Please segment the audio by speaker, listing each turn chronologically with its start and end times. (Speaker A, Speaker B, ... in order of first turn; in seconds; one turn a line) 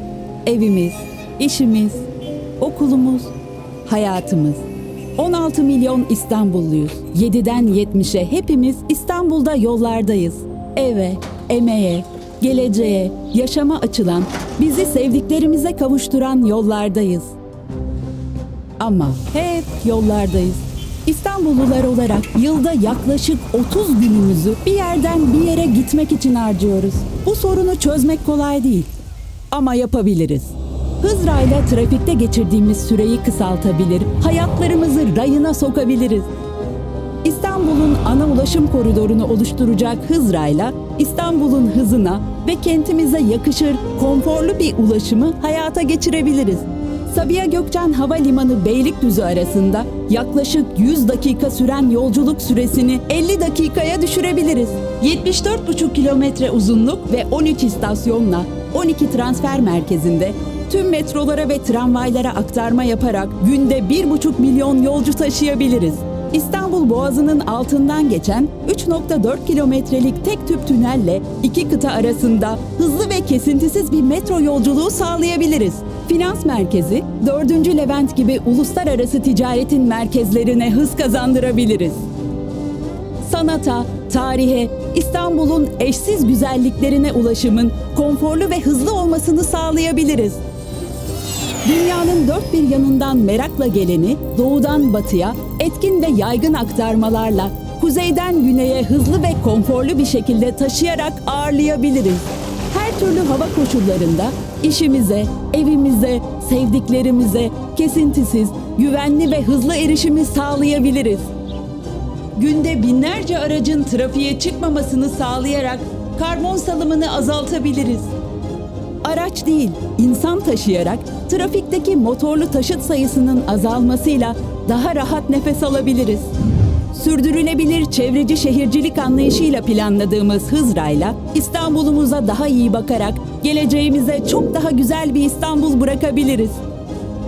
Speaker A: 0.4-2.1
Speaker A: 2.6-3.3
Speaker A: 3.8-4.6
Speaker A: 5.2-17.3
Speaker A: 18.8-28.9
Speaker A: 29.5-36.3
Speaker A: 37.2-82.0
Speaker A: 83.2-90.4
Speaker A: 91.6-111.3
Speaker A: 112.3-118.1
Speaker A: 119.0-126.3
Speaker A: 126.9-136.6